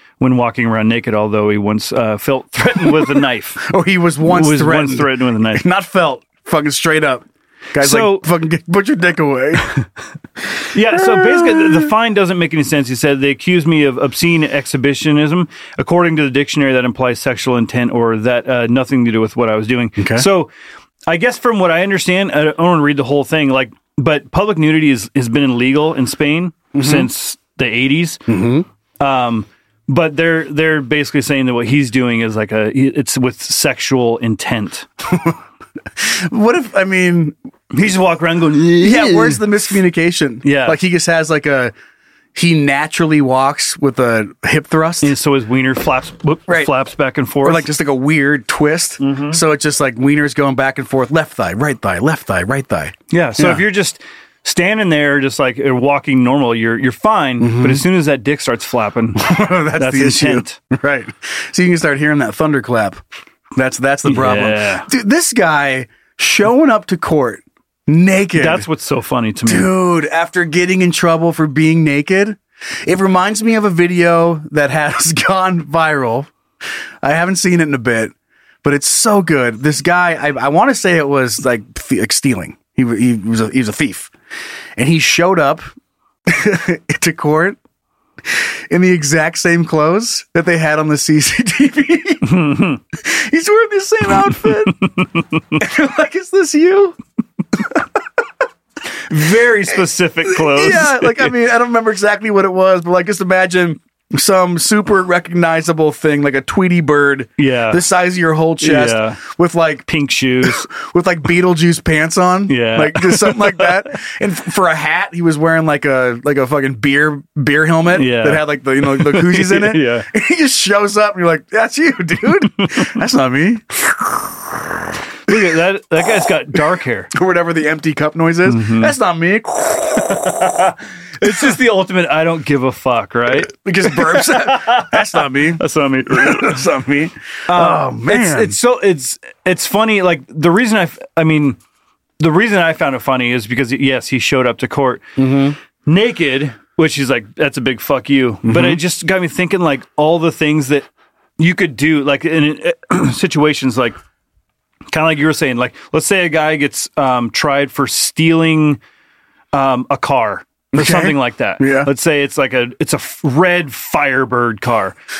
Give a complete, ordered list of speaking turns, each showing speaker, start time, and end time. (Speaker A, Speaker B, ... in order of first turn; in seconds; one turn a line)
Speaker A: 0.2-3.7
Speaker B: 2.9-9.8
Speaker A: 4.2-5.7
Speaker A: 7.8-8.3
Speaker A: 10.7-20.5
Speaker B: 10.9-11.9
Speaker B: 20.0-20.3
Speaker A: 21.1-28.2
Speaker B: 26.7-27.1
Speaker B: 28.3-28.7
Speaker A: 29.0-34.9
Speaker B: 35.0-35.4
Speaker B: 36.0-37.4
Speaker A: 37.7-39.4
Speaker B: 38.7-41.7
Speaker A: 40.4-40.8
Speaker B: 42.3-45.1
Speaker A: 45.0-47.7
Speaker B: 47.4-53.6
Speaker A: 49.0-49.4
Speaker A: 53.1-60.5
Speaker B: 57.4-57.8
Speaker B: 59.2-63.0
Speaker B: 63.5-68.7
Speaker A: 64.0-64.9
Speaker A: 68.3-69.7
Speaker B: 69.5-76.3
Speaker B: 77.0-78.1
Speaker B: 78.6-84.1
Speaker B: 84.8-85.7
Speaker B: 86.3-87.6
Speaker B: 88.3-92.4
Speaker A: 92.3-92.8
Speaker B: 93.0-94.8
Speaker B: 95.6-97.0
Speaker A: 99.1-101.3
Speaker B: 100.2-109.8
Speaker A: 107.4-107.8
Speaker A: 108.6-109.2
Speaker A: 109.9-110.7
Speaker B: 110.4-124.4
Speaker A: 112.5-113.9
Speaker A: 117.9-120.1
Speaker A: 125.3-127.1
Speaker B: 127.1-131.5
Speaker A: 128.4-128.9
Speaker A: 130.1-136.6
Speaker B: 133.5-138.6
Speaker A: 137.5-141.6
Speaker A: 142.2-145.0
Speaker B: 145.2-145.6
Speaker A: 145.8-150.9
Speaker B: 148.4-148.8
Speaker A: 151.4-154.0
Speaker A: 154.9-158.8
Speaker A: 159.5-164.9
Speaker B: 160.7-161.9